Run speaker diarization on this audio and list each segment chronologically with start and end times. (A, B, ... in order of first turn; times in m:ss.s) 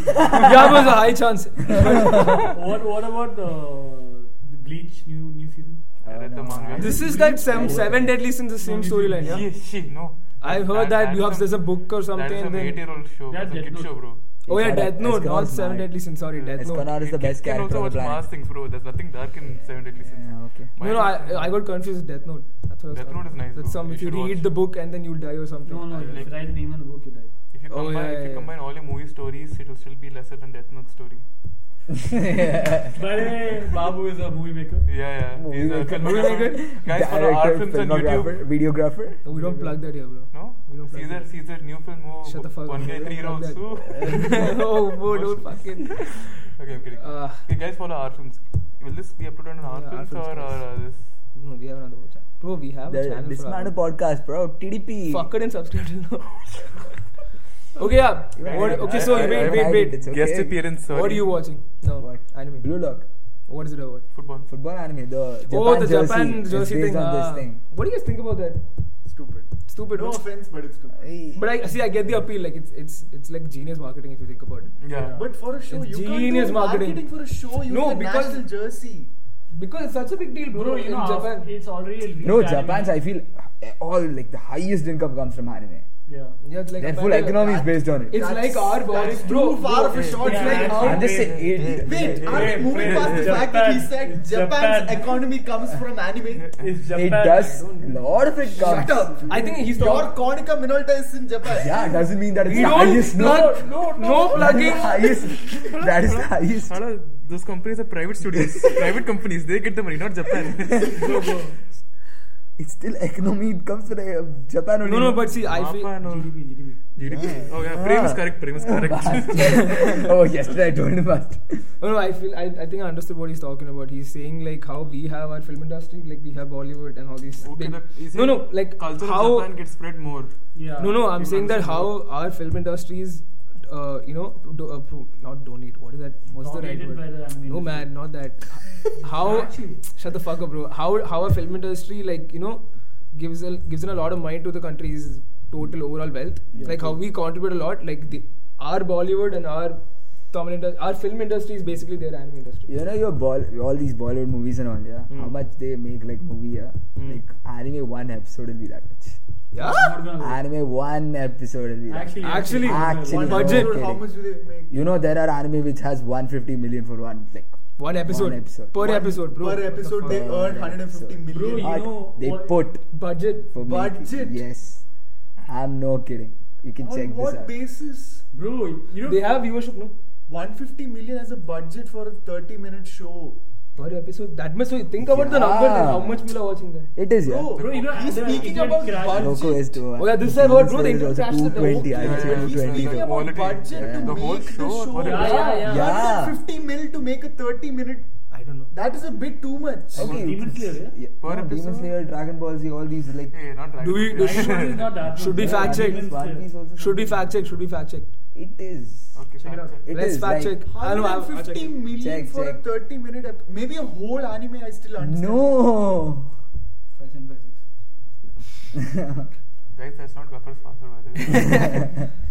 0:00.3-0:02.4 A
0:02.1-0:06.0 B
0:06.0-0:07.1 C
0:06.0-0:08.2 D
0:06.8-0:09.5 A
0:06.8-0:09.4 B
0:09.2-0:14.2 C
0:10.4-0:12.8 A
0:13.3-0:14.1 B
0:14.4-0:16.0 D
0:14.5-0:16.9 A
0:16.3-0:21.6 C
0:16.6-0:18.3 D
0:20.0-0:20.7 D
0:20.8-0:26.3 A
0:22.9-0:24.5 C
0:25.6-0:27.3 B
0:26.0-0:26.4 C
0:27.5-0:31.2 C
0:27.7-0:28.5 A
0:31.9-0:33.0 D
0:32.9-0:34.9 B
0:34.9-0:38.4 C
0:35.3-0:39.2 D
0:36.0-0:36.6 A
0:39.2-0:41.3 A
0:39.3-0:39.8 B
0:40.3-0:51.1 C
0:42.2-0:46.4 A
0:47.0-0:47.5 A
0:49.6-0:50.7 A
0:51.3-0:53.7 A
0:52.9-0:55.3 D
0:55.1-0:56.9 A
0:57.8-1:00.0 A
0:58.4-1:00.6 D
0:58.4-1:01.4 C
1:00.9-1:02.7 A
1:02.0-1:03.0 D
1:03.5-1:04.1 A
1:04.1-1:04.5 C
1:04.4-1:07.6 D
1:05.5-1:08.6 A
1:09.0-1:11.1 E
1:09.7-1:10.2 A
1:11.0-1:11.4 D
1:11.3-1:14.7 A
1:14.8-1:15.2 C
1:14.9-1:15.3 B
1:15.1-1:19.1 E
1:15.7-1:17.1 A
1:17.6-1:18.4 A
1:19.5-1:21.5 A
1:20.5-1:22.9 B
1:22.2-1:25.8 D
1:26.1-1:26.4 B
1:26.4-1:27.6 A
1:26.8-1:28.2 D
1:27.1-1:31.1 E
1:28.1-1:31.0 A
1:29.9-1:33.5 C
1:30.2-1:35.3 B
1:30.7-1:32.2 D
1:31.8-1:36.6 E
1:36.5-1:37.6 B
1:36.9-1:39.3 D
1:37.2-1:40.1 A
1:38.5-1:42.0 E
1:41.4-1:43.7 D
1:42.4-1:45.1 A
1:42.5-1:45.0 B
1:44.2-1:46.8 D
1:45.4-1:51.3 C
1:48.2-1:48.9 D
1:50.5-1:51.0 D
1:50.8-1:51.6 B
1:52.6-1:55.2 D
1:54.8-1:55.9 A
1:55.5-1:56.4 C
1:56.0-1:57.3 B
1:56.9-2:00.0 C
1:57.1-2:01.7 D
2:01.8-2:09.5 A
2:07.4-2:10.3 C
2:10.5-2:11.2 B
2:10.8-2:32.7 A
2:11.1-2:12.0 C
2:16.3-2:17.9 B
2:19.0-2:19.8 B
2:26.5-2:26.9 B
2:26.5-2:26.9 D
2:32.7-2:39.2 D
2:35.1-2:35.3 A
2:36.9-2:37.2 A
2:39.5-2:40.0 A
2:39.6-2:40.4 B
2:40.2-2:44.0 D
2:41.9-2:43.4 B
2:42.2-2:43.8 A
2:43.0-2:44.7 E
2:44.7-2:48.8 D
2:47.8-2:50.3 A
2:48.8-2:51.9 E
2:50.0-2:52.8 D
2:51.3-2:52.6 B
2:52.9-2:53.5 A
2:53.5-2:54.8 D
2:53.6-2:54.4 E
2:55.4-2:57.5 D
2:56.8-2:58.2 E
2:58.3-2:59.3 B
2:59.0-2:59.9 A
3:00.3-3:03.4 E
3:03.8-3:06.9 A
3:05.0-3:06.3 D
3:06.9-3:07.5 D
3:07.2-3:09.6 E
3:07.5-3:08.6 C
3:07.6-3:09.5 B
3:09.0-3:14.3 D
3:09.9-3:12.1 A
3:11.5-3:18.1 E
3:11.9-3:15.5 C
3:15.0-3:16.0 B
3:15.1-3:15.7 A
3:15.6-3:16.4 D
3:18.3-3:18.7 A
3:18.7-3:20.2 E
3:19.9-3:23.4 D
3:20.0-3:21.0 B
3:21.2-3:21.9 C
3:23.3-3:25.1 C
3:23.8-3:26.1 A
3:24.1-3:26.5 B
3:25.3-3:27.3 D
3:26.8-3:28.1 A
3:28.3-3:29.2 D
3:29.1-3:29.8 C
3:29.4-3:29.9 B
3:29.8-3:30.6 D
3:29.9-3:31.8 A
3:30.6-3:35.5 E
3:32.0-3:32.6 D
3:35.0-3:36.3 D
3:36.9-3:37.6 B
3:38.8-3:39.2 D
3:39.7-3:41.9 C
3:41.4-3:41.7 A